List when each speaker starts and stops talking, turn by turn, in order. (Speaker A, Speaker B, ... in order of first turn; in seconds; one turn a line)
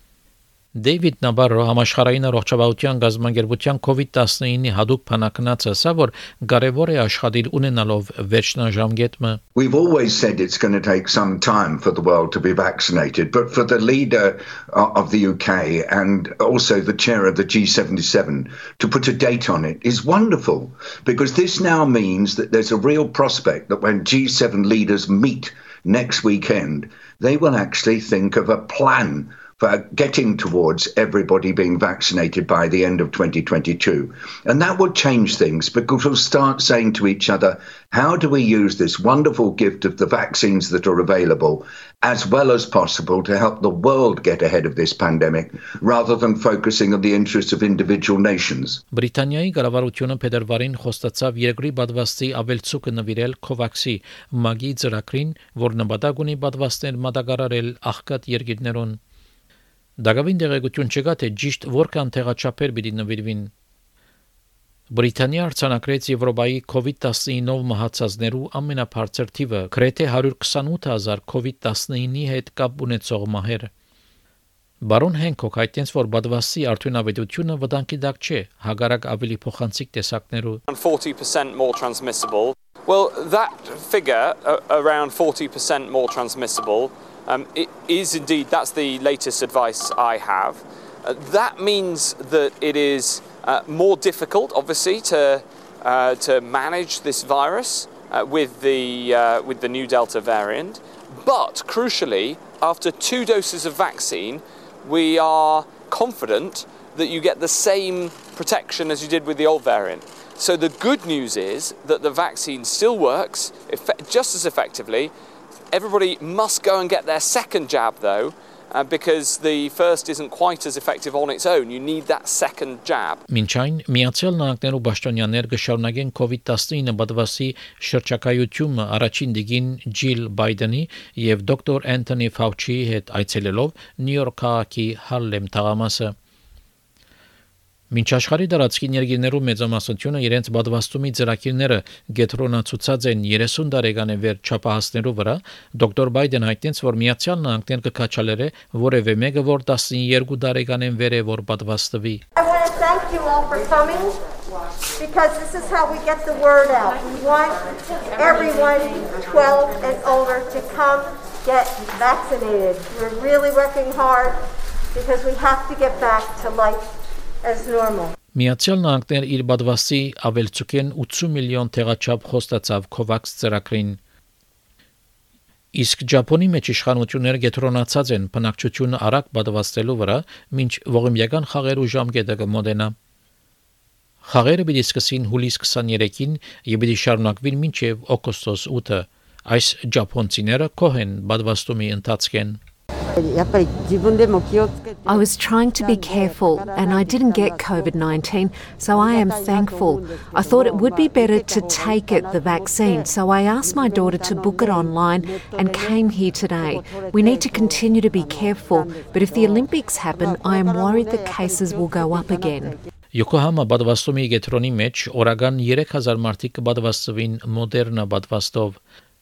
Speaker A: 0.8-9.4
Speaker B: 9.6-48.8
Speaker A: 48.9-59.0
Speaker A: 60.0-63.5
Speaker A: 64.9-73.7
Speaker A: 74.8-80.6
Speaker C: 80.7-115.1
Speaker C: 115.7-123.2
Speaker A: 123.3-136.1
Speaker A: 137.9-152.2
Speaker D: 152.4-154.1
Speaker D: 155.0-168.1
Speaker A: 168.3-174.0
Speaker A: 175.8-182.9
Speaker A: 184.2-192.6
Speaker E: 193.4-194.7
Speaker F: 195.1-212.8
Speaker E: 196.9-198.0
Speaker E: 199.1-199.4
Speaker E: 200.7-201.1
Speaker E: 201.7-202.4
Speaker E: 203.8-204.3
Speaker E: 206.7-207.8
Speaker E: 208.3-209.7
Speaker E: 210.2-211.2
Speaker E: 211.7-212.5
Speaker A: 213.1-218.8